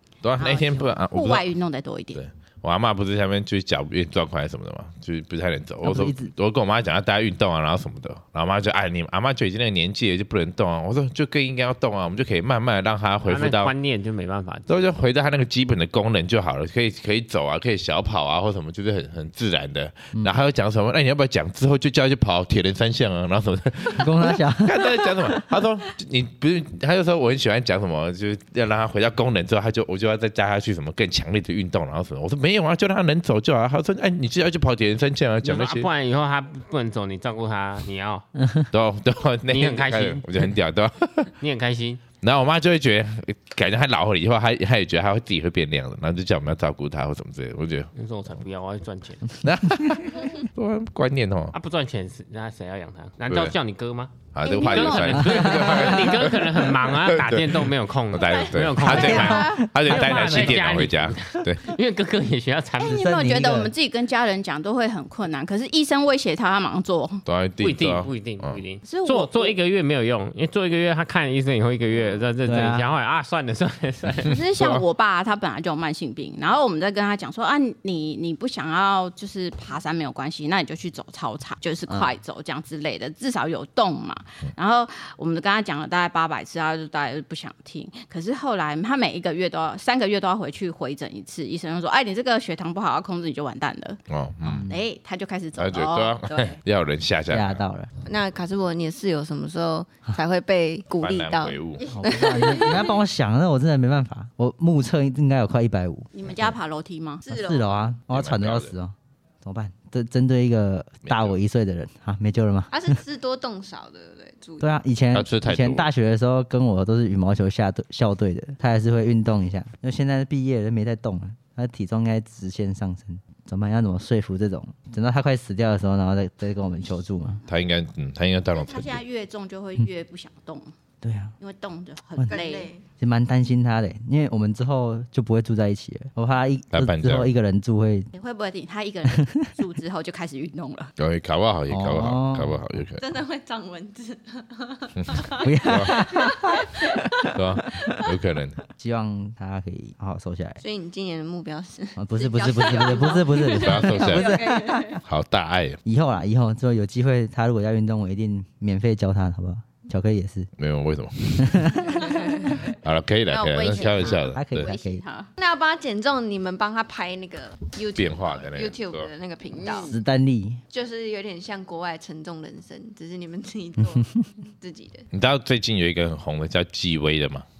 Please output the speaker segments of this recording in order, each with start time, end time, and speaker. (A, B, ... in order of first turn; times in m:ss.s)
0:00.2-0:01.5 A
0:00.4-0:02.2 B
0:02.1-0:13.7 A
0:05.8-0:06.3 C
0:13.2-0:14.8 D
0:14.7-0:35.9 A
0:23.9-0:25.4 C
0:35.4-0:38.3 D
0:38.4-0:38.7 C
0:38.7-0:41.3 A
0:39.5-0:40.3 D
0:41.4-0:42.0 D
0:42.2-0:47.9 A
0:48.0-0:49.4 D
0:49.4-0:51.5 A
0:49.6-0:50.0 C
0:51.5-1:03.2 D
0:53.3-0:53.6 A
0:54.3-1:01.7 A
0:54.4-0:55.8 B
0:55.4-0:55.8 C
0:58.3-0:59.7 B
0:58.8-1:00.8 C
1:02.8-1:07.2 B
1:02.8-1:03.7 C
1:07.3-1:08.6 A
1:07.6-1:14.4 D
1:08.8-1:09.6 B
1:12.4-1:12.9 C
1:14.3-1:34.0 B
1:14.3-1:14.8 A
1:21.9-1:22.1 C
1:34.1-1:34.6 A
1:34.4-1:34.8 C
1:34.7-1:36.6 B
1:35.6-1:37.6 A
1:37.3-1:37.9 C
1:38.0-1:42.9 E
1:41.0-1:41.8 A
1:41.9-1:46.5 C
1:46.1-1:47.2 B
1:47.2-1:47.8 E
1:47.3-1:53.0 C
1:48.1-1:48.7 A
1:51.0-1:51.4 A
1:52.7-1:54.8 E
1:54.6-2:07.4 C
1:55.1-1:55.9 A
2:07.5-2:09.0 A
2:08.5-2:10.7 B
2:11.0-2:11.3 C
2:11.4-2:12.8 B
2:12.3-2:12.8 E
2:13.0-2:18.1 C
2:16.7-2:17.3 A
2:18.1-2:20.9 B
2:19.1-2:19.5 C
2:21.0-2:23.0 A
2:21.7-2:22.8 C
2:23.0-2:26.3 E
2:25.0-2:26.0 A
2:25.4-2:27.8 C
2:27.3-2:28.6 A
2:28.7-2:30.6 C
2:30.6-2:34.9 E
2:32.0-2:35.0 C
2:32.5-2:33.6 B
2:33.6-2:34.3 A
2:34.4-2:35.0 B
2:35.0-2:35.8 A
2:35.8-2:40.5 C
2:40.6-2:44.7 A
2:41.4-2:42.0 C
2:42.0-2:42.4 E
2:42.1-2:42.7 B
2:43.3-2:45.3 B
2:43.9-2:44.2 E
2:44.3-2:45.0 C
2:45.4-2:49.9 E
2:47.9-2:49.1 A
2:49.6-2:49.9 B
2:49.7-2:50.6 C
2:50.7-2:55.1 E
2:55.1-2:57.4 A